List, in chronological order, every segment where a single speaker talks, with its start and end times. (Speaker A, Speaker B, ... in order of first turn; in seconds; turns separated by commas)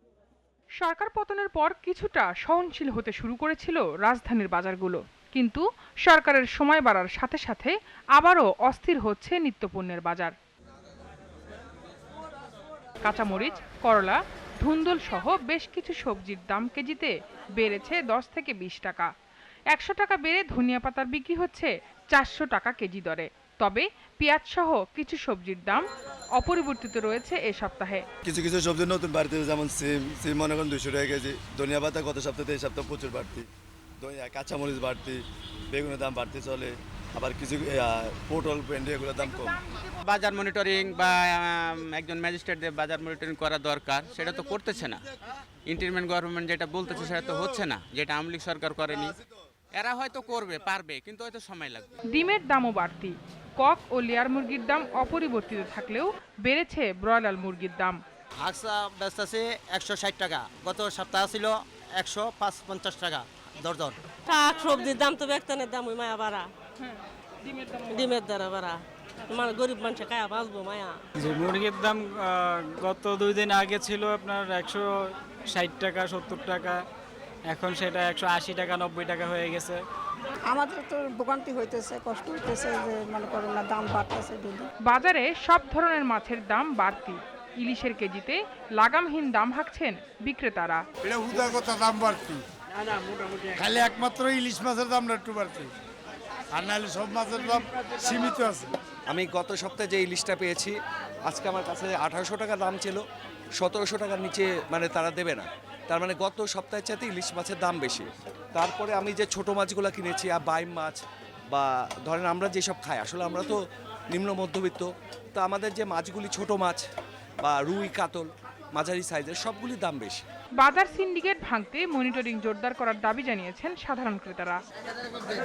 Speaker A: 0.8-10.3, Speaker A: 13.0-19.1, Speaker A: 19.7-25.8, Speaker A: 26.4-28.1, Speaker B: 28.2-33.5, Speaker B: 34.0-39.6, Speaker C: 40.0-45.0, Speaker C: 45.6-49.2, Speaker C: 49.7-51.9, Speaker A: 52.1-58.0, Speaker D: 58.4-64.0, Speaker E: 64.3-66.5, Speaker E: 67.7-71.0, Speaker F: 71.2-76.8, Speaker F: 77.5-79.8, Speaker G: 80.5-84.7, Speaker A: 84.9-90.8, Speaker H: 91.0-92.4, Speaker H: 93.5-95.7, Speaker H: 96.5-98.7, Speaker I: 99.1-100.7, Speaker I: 101.2-103.0, Speaker I: 103.6-113.6, Speaker I: 114.1-116.8, Speaker I: 117.4-120.2, Speaker A: 120.6-124.6